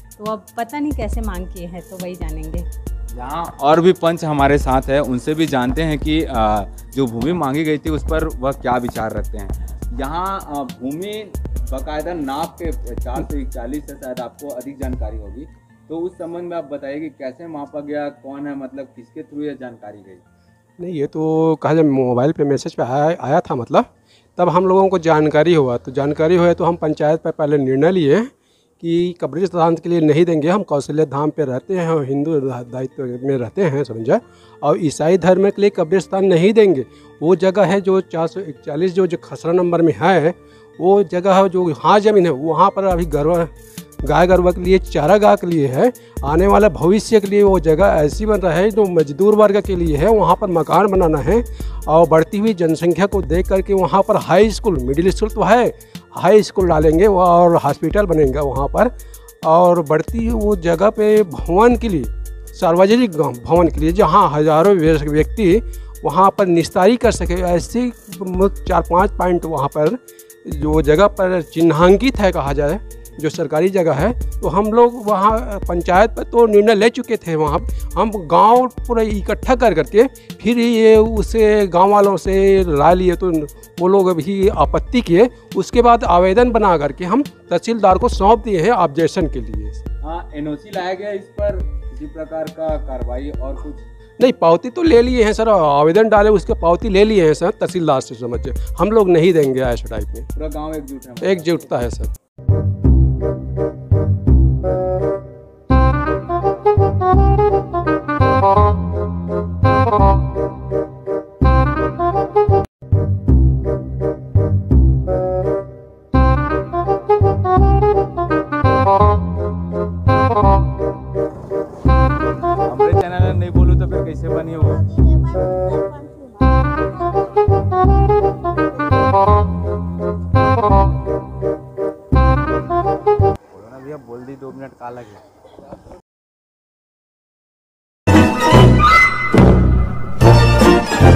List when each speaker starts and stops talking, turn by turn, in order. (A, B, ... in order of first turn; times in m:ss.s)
0:00.2-0:02.6 A
0:03.1-0:20.2 B
0:20.8-0:43.5 C
0:44.0-0:58.9 C
0:59.4-1:29.8 C
1:30.0-1:33.8 B
1:34.2-1:40.2 C
1:40.3-1:41.7 B
1:41.2-1:42.1 C
2:02.6-2:04.8 B
2:13.5-2:15.2 B